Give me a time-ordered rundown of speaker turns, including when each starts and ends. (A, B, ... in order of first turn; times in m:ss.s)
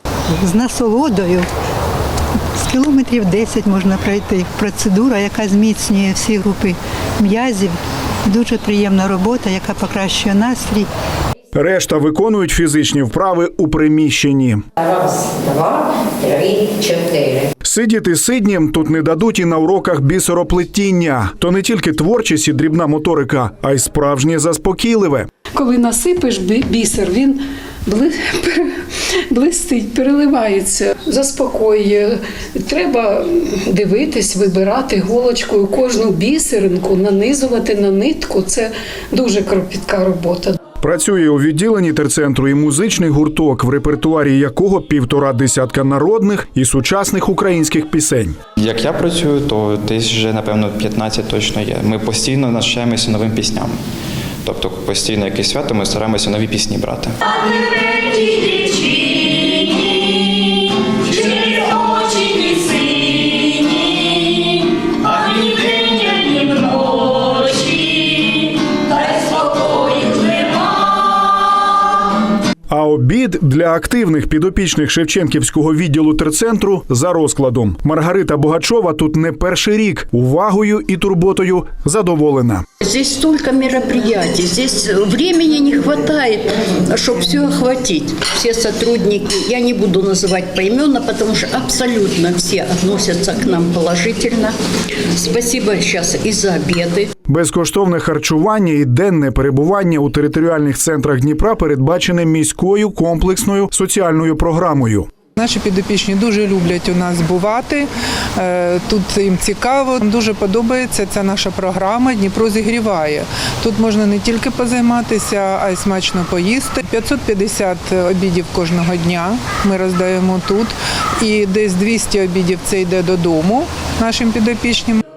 0:00.3-0:01.5 A
0:02.6-0:10.9 A
0:11.5-0:14.6 B
0:14.8-0:17.5 C
0:17.6-0:25.3 B
0:25.6-0:27.4 D
0:27.9-0:28.6 D
0:29.3-0:32.0 D
0:32.7-0:40.5 D
0:40.8-0:48.4 B
0:48.6-0:53.8 E
0:54.4-0:57.8 E
1:01.4-1:01.7 E
1:02.1-1:02.6 F
1:07.2-1:07.8 F
1:09.2-1:10.5 F
1:12.7-1:22.6 B
1:22.8-1:34.5 F
1:35.1-1:37.1 F
1:37.2-1:45.1 B
1:45.4-2:05.0 G